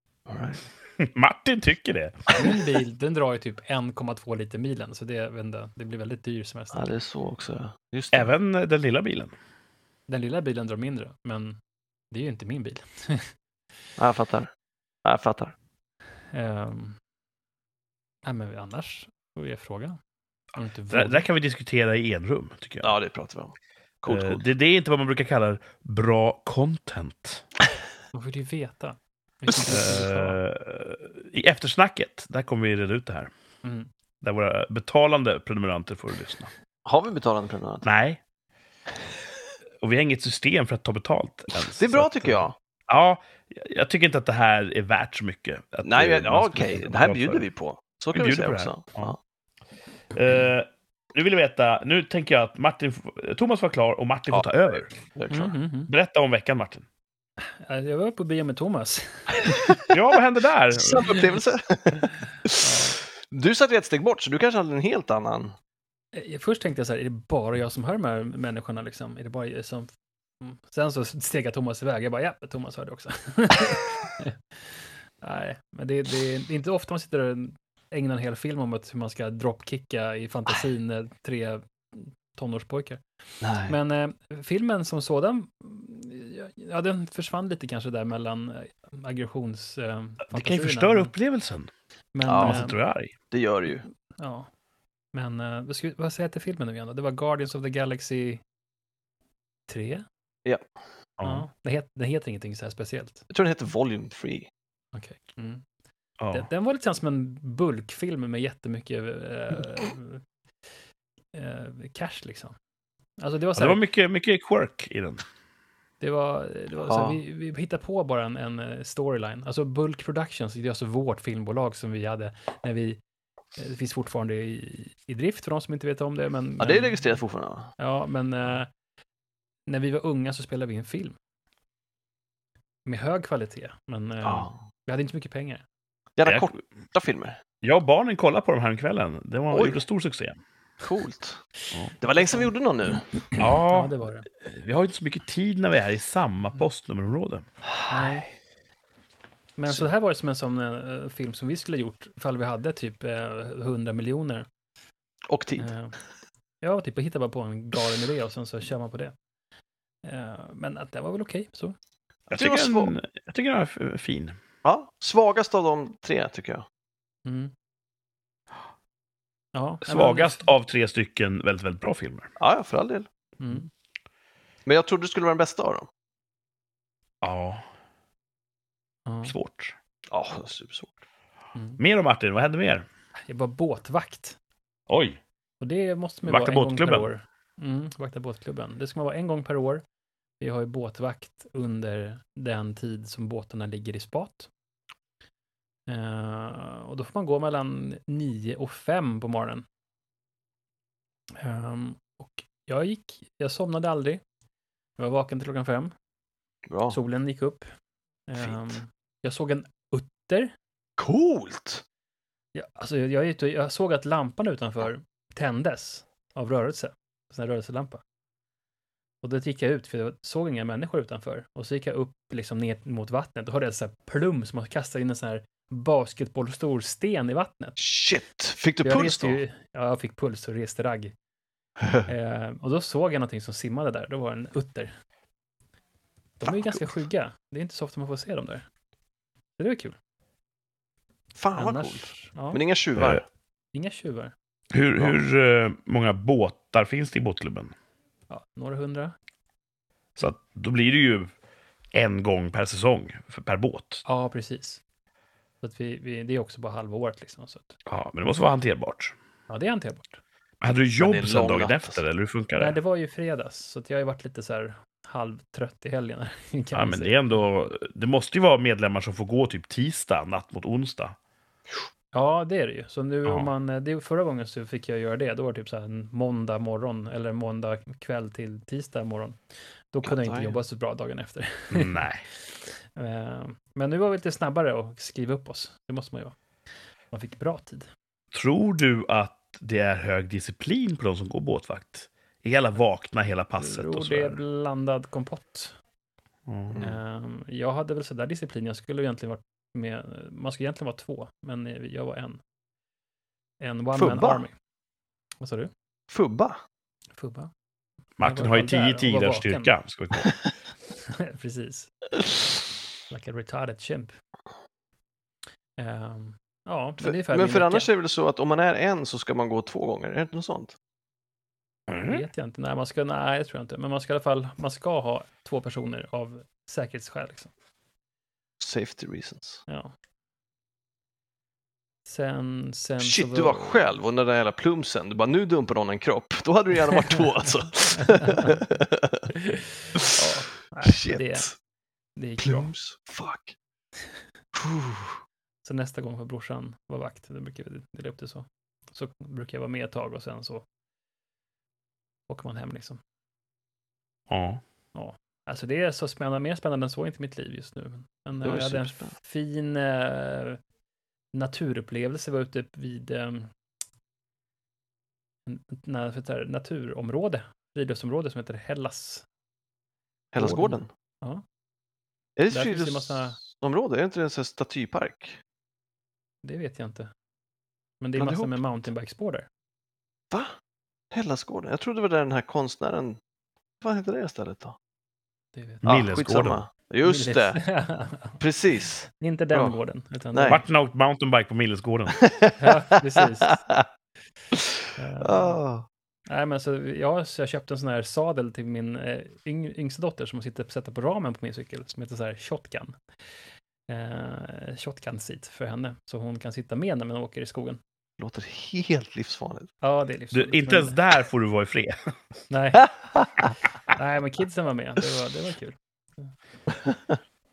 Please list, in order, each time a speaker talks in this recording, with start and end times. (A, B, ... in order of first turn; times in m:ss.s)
0:00.3-0:00.6 A
0:01.0-0:02.5 B
0:02.3-0:06.9 C
0:06.7-0:08.3 A
0:08.1-0:09.3 B
0:10.1-0:11.6 C
0:12.1-0:13.3 C
0:14.0-0:14.5 A
0:15.0-0:15.5 A
0:16.3-0:17.0 C
0:18.2-0:20.0 C
0:20.5-0:21.2 C
0:20.9-0:22.9 B
0:22.8-0:24.4 A
0:24.1-0:27.4 B
0:28.1-0:30.4 C
0:29.6-0:33.3 B
0:33.6-0:33.9 C
0:34.2-0:36.5 B
0:36.8-0:37.8 A
0:37.8-0:38.2 B
0:39.8-0:47.4 B
0:41.6-0:42.5 A
0:45.8-0:49.2 A
0:48.1-0:49.2 B
0:50.1-0:54.9 B
0:54.3-0:55.6 A
0:55.3-0:55.9 C
0:55.9-0:56.9 B
0:57.6-0:59.7 C
0:59.3-0:59.9 A
0:59.9-1:01.2 B
1:00.7-1:05.5 A
1:02.6-1:03.0 C
1:06.1-1:23.0 C
1:23.4-1:23.8 A
1:23.6-1:31.1 C
1:30.3-1:31.7 B
1:32.1-1:32.8 C
1:32.2-1:32.6 A
1:32.4-1:33.1 B
1:33.3-1:33.8 A
1:34.2-1:34.5 C
1:35.1-1:38.4 C
1:39.7-1:40.0 C
1:41.2-1:41.4 B
1:41.2-1:43.2 C
1:43.3-1:44.5 A
1:44.9-1:45.6 C
1:46.2-1:46.5 B
1:46.3-1:50.2 C
1:51.3-1:52.6 C
1:53.2-1:53.8 C
1:53.5-1:55.2 B
1:56.0-2:03.0 C
1:56.8-1:57.2 A
2:03.6-2:07.1 C
2:06.6-2:07.7 A
2:07.8-2:08.7 C
2:09.7-2:11.2 C
2:12.8-2:15.6 C
2:14.2-2:14.6 A
2:16.2-2:17.4 A
2:16.2-2:16.5 B
2:17.6-2:20.4 B
2:19.5-2:19.8 A
2:20.8-2:21.4 A
2:22.0-2:23.4 A
2:22.2-2:22.4 C
2:23.4-2:27.4 B
2:23.7-2:24.3 C
2:27.6-2:28.3 A
2:27.9-2:28.2 C
2:29.6-2:34.5 C
2:35.3-2:35.7 A
2:35.6-2:36.0 C
2:36.6-2:39.1 C
2:40.0-2:41.7 C
2:42.3-2:42.9 A
2:42.3-2:44.4 B
2:44.6-2:46.6 A
2:47.2-2:47.5 C
2:49.5-2:50.5 C
2:49.8-2:52.3 B
2:52.4-2:53.1 A
2:53.4-2:53.7 C
2:54.6-2:55.9 A
2:57.2-2:57.6 B
2:59.0-2:59.3 C
2:59.2-2:59.7 B
3:00.1-3:00.9 A
3:01.5-3:01.8 C
3:01.8-3:02.8 B
3:03.3-3:04.4 C
3:04.9-3:05.2 B
3:05.6-3:09.8 C
3:06.2-3:07.1 B
3:10.4-3:14.5 C
3:15.9-3:19.6 C
3:21.4-3:24.2 C
3:25.0-3:25.9 C
3:26.7-3:27.0 A
3:26.9-3:27.7 C
3:28.3-3:30.5 C
3:28.4-3:28.8 A
3:31.0-3:31.8 A
3:32.5-3:38.0 C
3:39.2-3:47.8 C
3:47.8-3:49.4 A
3:48.8-3:51.1 C
3:51.8-3:52.1 A
3:52.1-3:54.9 C
3:56.4-3:58.6 C
3:56.4-3:56.8 A
3:59.6-4:00.0 C
4:01.4-4:03.2 A
4:01.6-4:02.6 C
4:03.0-4:03.2 B
4:03.7-4:04.3 C
4:04.7-4:07.7 B
4:08.3-4:09.1 C
4:10.2-4:11.3 B
4:11.9-4:14.0 B
4:14.0-4:14.8 C
4:15.6-4:17.7 C
4:17.9-4:19.1 B
4:19.5-4:20.2 C
4:20.6-4:22.8 B
4:21.0-4:22.0 A
4:22.6-4:27.4 C
4:26.7-4:31.2 B
4:32.1-4:39.4 C
4:33.2-4:33.5 B
4:39.9-4:46.3 C
4:40.0-4:40.6 A
4:41.7-4:42.2 B
4:47.1-4:47.9 C
4:48.3-4:54.4 B
4:53.6-4:55.8 C
4:56.5-4:56.8 B
4:56.7-4:57.0 A
4:56.8-5:02.4 C
5:03.6-5:04.5 C
5:03.9-5:04.4 A
5:05.4-5:05.7 C
5:06.1-5:06.6 A
5:07.1-5:07.5 C
5:08.2-5:10.4 B
5:08.2-5:09.7 C
5:11.1-5:11.9 C
5:13.1-5:14.1 C
5:15.8-5:17.9 C
5:17.0-5:20.7 A
5:21.9-5:22.2 B
5:22.0-5:27.5 C
5:28.6-5:29.6 A
5:29.7-5:29.9 C
5:32.0-5:33.9 C
5:33.0-5:39.3 A
5:38.3-5:38.6 C
5:39.4-5:41.5 C
5:40.8-5:41.6 A
5:42.2-5:42.7 C
5:42.4-5:43.5 A
5:44.5-5:45.2 A
5:45.6-5:50.6 C
5:52.3-5:53.0 C
5:54.3-5:54.6 B
5:54.9-6:00.6 C
5:58.4-5:59.1 A
6:01.3-6:03.5 C
6:05.5-6:09.2 C
6:10.3-6:10.9 A
6:10.4-6:11.4 C
6:12.4-6:15.4 A
6:12.5-6:13.4 C
6:16.4-6:17.1 C
6:18.0-6:19.5 C
6:18.2-6:18.6 A
6:21.1-6:23.2 A
6:23.8-6:24.8 A
6:25.5-6:26.0 C
6:25.8-6:26.6 B
6:25.8-6:27.6 A
6:27.0-6:28.4 C
6:28.4-6:29.8 A
6:29.2-6:30.6 C
6:30.3-6:30.6 A
6:30.5-6:32.2 B
6:32.2-6:33.8 A
6:32.6-6:33.6 C
6:35.0-6:35.6 C
6:35.2-6:35.9 A
6:36.3-6:43.0 C
6:43.9-6:47.8 C
6:48.2-6:49.7 A
6:49.8-6:51.0 C
6:50.3-6:52.4 B
6:52.5-6:53.0 C
6:53.0-6:53.5 A
6:53.9-6:56.3 C
6:56.7-6:57.2 A